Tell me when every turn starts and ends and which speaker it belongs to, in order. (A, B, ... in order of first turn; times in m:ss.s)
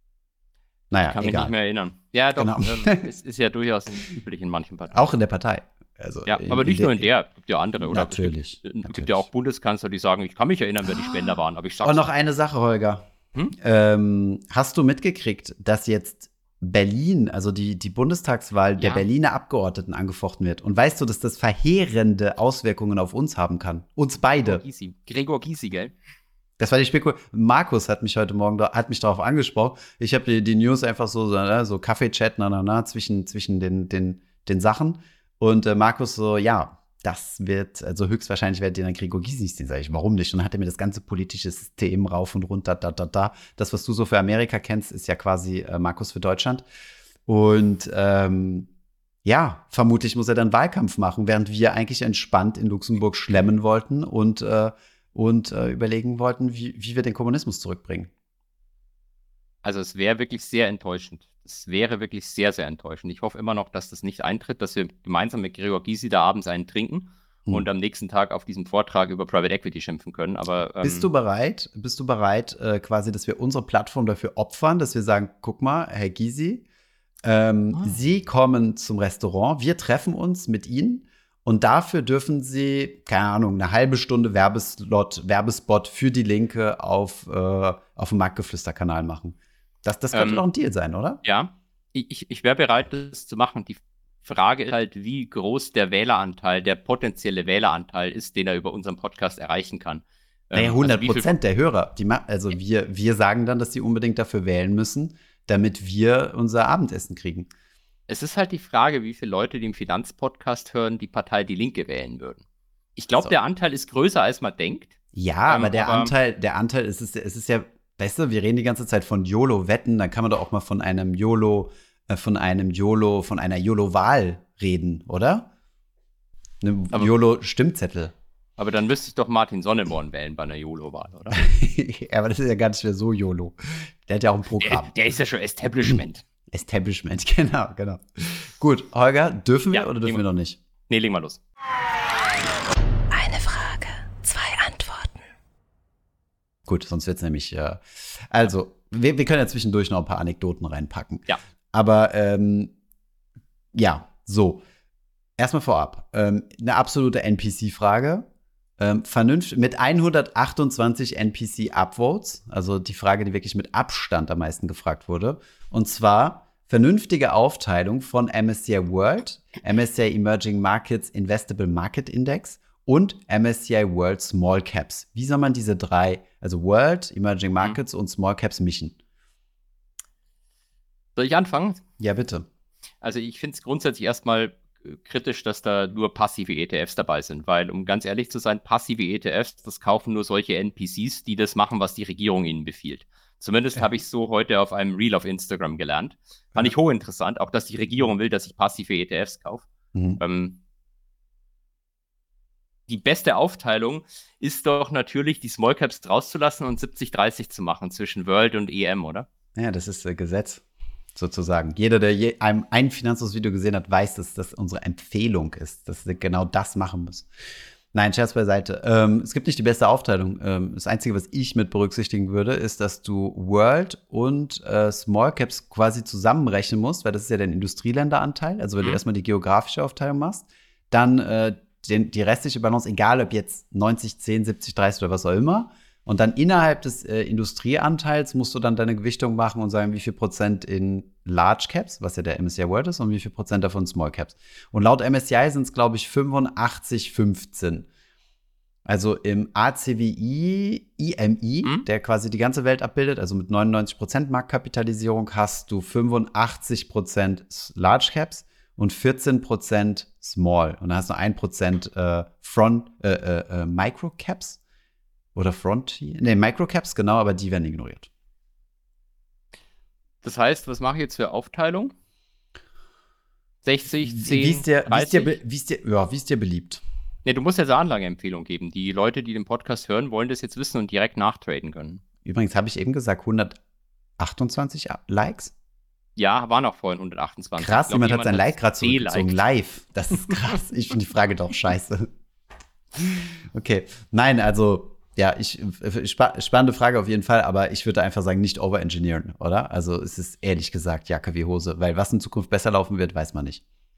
0:00.9-0:01.5 A
0:01.1-0:05.1 B
0:02.4-0:03.0 A
0:04.9-0:07.1 A
0:06.2-0:12.1 B
0:07.8-0:09.2 A
0:11.0-0:24.6 A
0:18.8-0:19.0 B
0:24.4-0:25.9 B
0:26.6-0:46.6 A
0:47.2-0:48.7 A
0:49.2-0:58.1 A
0:59.6-1:11.1 B
1:10.8-1:16.6 A
1:17.2-1:31.2 A
1:30.1-1:30.4 B
1:31.2-1:41.3 B
1:40.5-1:47.5 A
1:48.1-1:52.4 B
1:53.0-1:54.9 B
1:55.1-2:05.5 A
1:55.5-1:56.1 B
2:06.6-2:08.1 A
2:08.6-2:11.4 B
2:11.3-2:14.9 A
2:14.6-2:16.2 B
2:16.5-2:20.6 A
2:19.7-2:20.2 B
2:20.9-2:21.4 B
2:23.1-2:25.2 C
2:26.7-2:32.7 A
2:33.7-2:34.6 A
2:35.4-2:59.0 A
3:01.2-3:01.8 B
3:02.0-3:02.5 A
3:03.0-3:20.6 B
3:19.9-3:20.2 A
3:22.9-3:29.3 B
3:29.6-3:30.6 A
3:31.2-3:37.3 A
3:37.9-4:07.9 A
4:08.8-4:24.6 A
4:25.3-4:28.1 A
4:30.2-4:31.9 B
4:33.6-4:35.4 B
4:34.0-4:36.8 A
4:37.2-4:42.0 B
4:42.2-4:43.6 A
4:44.2-4:45.5 A
4:46.2-4:49.4 B
4:47.6-4:52.1 A
4:53.0-5:03.6 A